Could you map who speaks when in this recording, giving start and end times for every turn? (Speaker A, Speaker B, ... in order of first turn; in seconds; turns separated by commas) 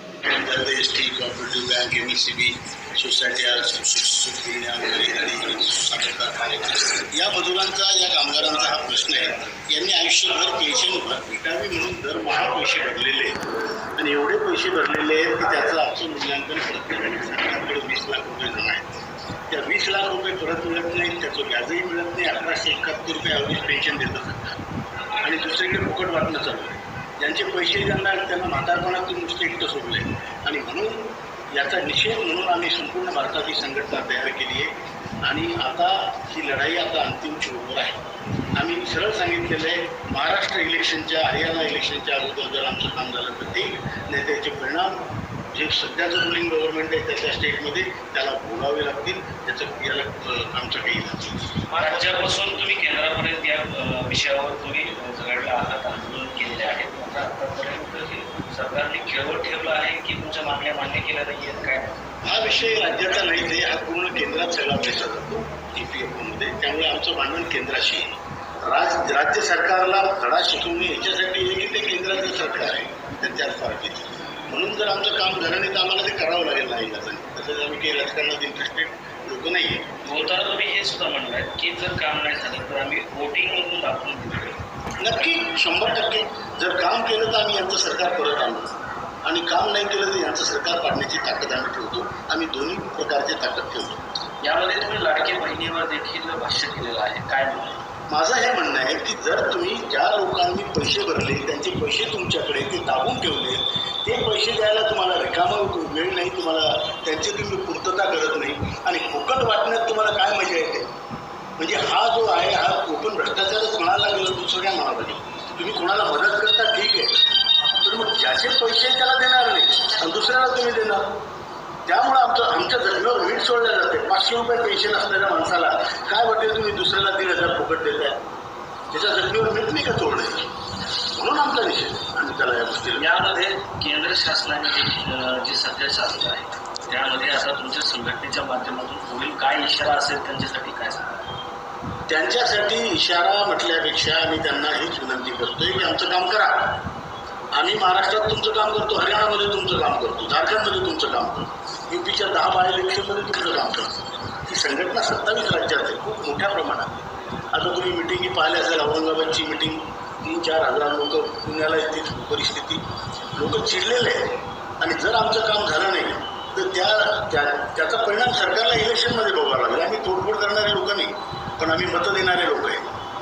Speaker A: 0.2-13.4, Speaker A: 13.9-18.9, Speaker A: 19.5-24.4, Speaker A: 25.2-34.7, Speaker A: 35.2-38.0, Speaker A: 38.5-45.0, Speaker A: 45.5-51.5, Speaker B: 51.7-62.0, Speaker A: 62.2-68.1, Speaker A: 68.6-79.9, Speaker B: 80.0-84.6, Speaker A: 85.0-94.0, Speaker B: 94.4-97.8, Speaker A: 98.1-110.9, Speaker A: 111.6-117.2, Speaker A: 117.8-121.2, Speaker A: 121.8-128.2, Speaker A: 128.9-130.5, Speaker A: 131.1-133.1, Speaker B: 133.0-141.2, Speaker A: 142.1-146.8, Speaker A: 147.5-162.8, Speaker A: 163.3-172.8